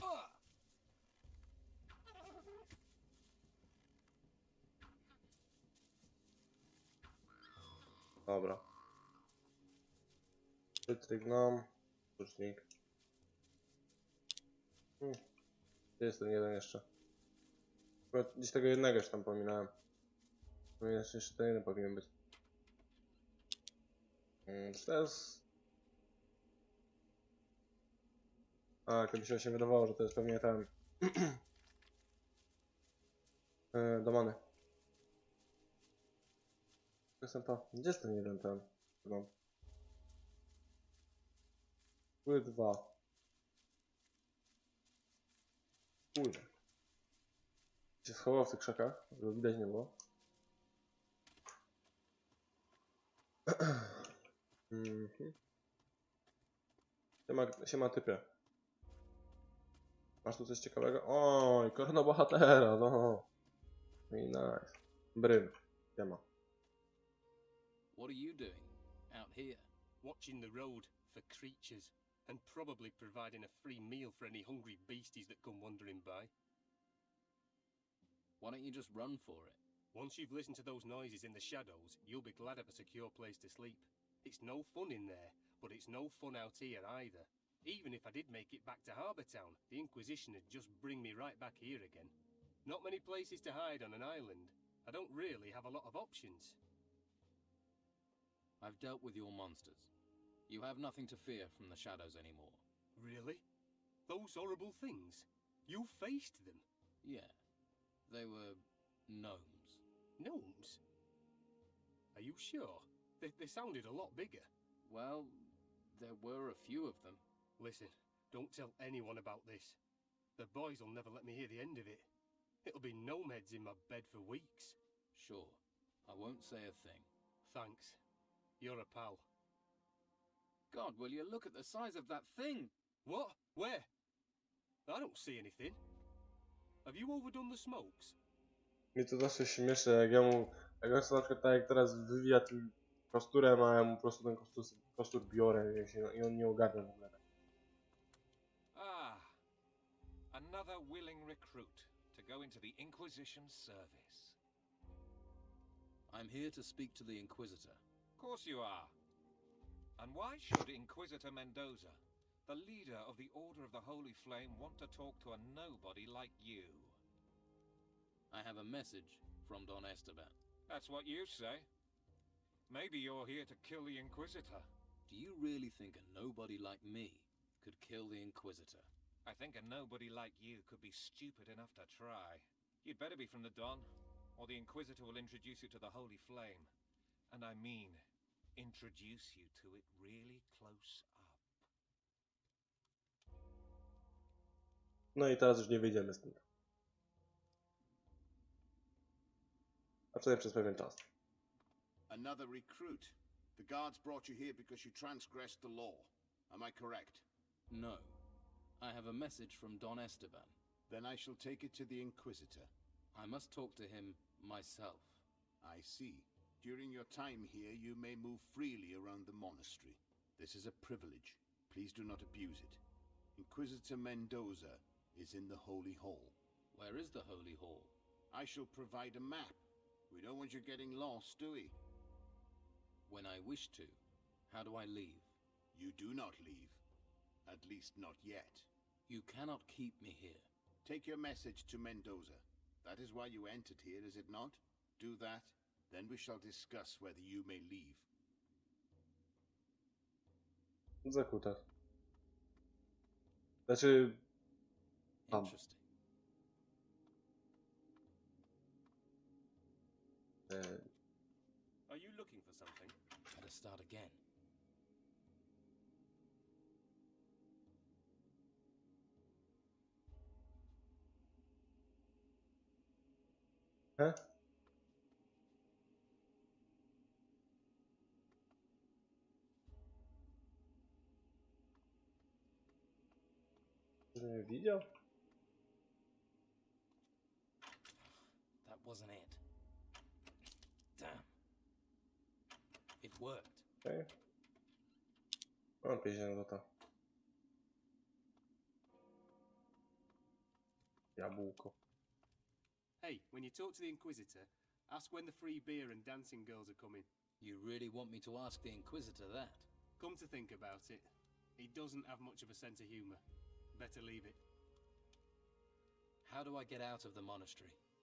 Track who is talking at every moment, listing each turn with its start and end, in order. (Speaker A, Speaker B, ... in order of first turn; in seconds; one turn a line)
Speaker A: 8.2-8.6
Speaker A: 10.8-12.6
Speaker A: 16.0-16.8
Speaker A: 18.1-19.7
Speaker A: 20.8-22.1
Speaker A: 24.4-25.4
Speaker A: 28.9-31.4
Speaker A: 33.7-34.4
Speaker A: 37.2-39.3
Speaker A: 42.2-42.9
Speaker A: 46.1-46.5
Speaker A: 48.0-50.0
Speaker A: 53.5-54.1
Speaker A: 54.7-55.4
Speaker A: 57.3-58.2
Speaker A: 60.2-63.2
Speaker A: 64.1-66.2
Speaker B: 67.9-69.7
Speaker C: 70.0-76.3
Speaker B: 78.4-79.6
Speaker C: 79.9-92.1
Speaker C: 92.6-96.6
Speaker B: 98.6-99.9
Speaker B: 100.5-102.6
Speaker C: 103.0-103.4
Speaker C: 104.1-106.6
Speaker B: 107.0-107.4
Speaker B: 108.1-109.8
Speaker C: 110.2-110.8
Speaker C: 112.1-114.5
Speaker B: 114.8-117.2
Speaker C: 117.6-119.8
Speaker C: 120.3-122.1
Speaker C: 122.6-124.8
Speaker B: 125.1-127.1
Speaker C: 127.4-128.0
Speaker C: 128.6-129.2
Speaker B: 130.7-132.7
Speaker C: 133.0-133.9
Speaker C: 134.8-135.8
Speaker C: 136.8-138.2
Speaker A: 138.9-147.2
Speaker D: 148.7-149.3
Speaker D: 150.3-154.4
Speaker B: 156.1-157.8
Speaker D: 158.2-158.9
Speaker D: 160.0-167.0
Speaker B: 168.3-170.3
Speaker D: 170.7-171.7
Speaker D: 172.7-174.7
Speaker B: 175.1-178.9
Speaker D: 179.2-186.7
Speaker D: 187.3-188.0
Speaker D: 188.6-191.7
Speaker A: 195.1-196.4
Speaker A: 200.1-201.0
Speaker E: 202.1-207.2
Speaker B: 207.7-208.2
Speaker B: 208.8-210.6
Speaker E: 210.9-212.7
Speaker B: 213.1-215.2
Speaker E: 215.6-222.8
Speaker E: 223.3-226.3
Speaker B: 226.7-227.9
Speaker E: 228.3-231.8
Speaker B: 233.1-235.3
Speaker E: 235.7-236.8
Speaker E: 237.4-238.7
Speaker B: 239.1-240.5
Speaker E: 240.8-248.1
Speaker A: 251.0-251.6
Speaker A: 253.7-254.2
Speaker B: 255.3-255.8
Speaker A: 260.5-260.9
Speaker B: 263.3-264.2
Speaker A: 284.1-284.9
Speaker B: 288.6-289.4
Speaker B: 290.9-291.3
Speaker B: 293.0-293.6
Speaker A: 293.8-294.1
Speaker A: 295.8-296.6
Speaker A: 301.2-301.8
Speaker C: 303.0-307.1
Speaker B: 307.4-309.7
Speaker C: 310.0-313.2
Speaker C: 313.7-314.4
Speaker B: 316.2-317.8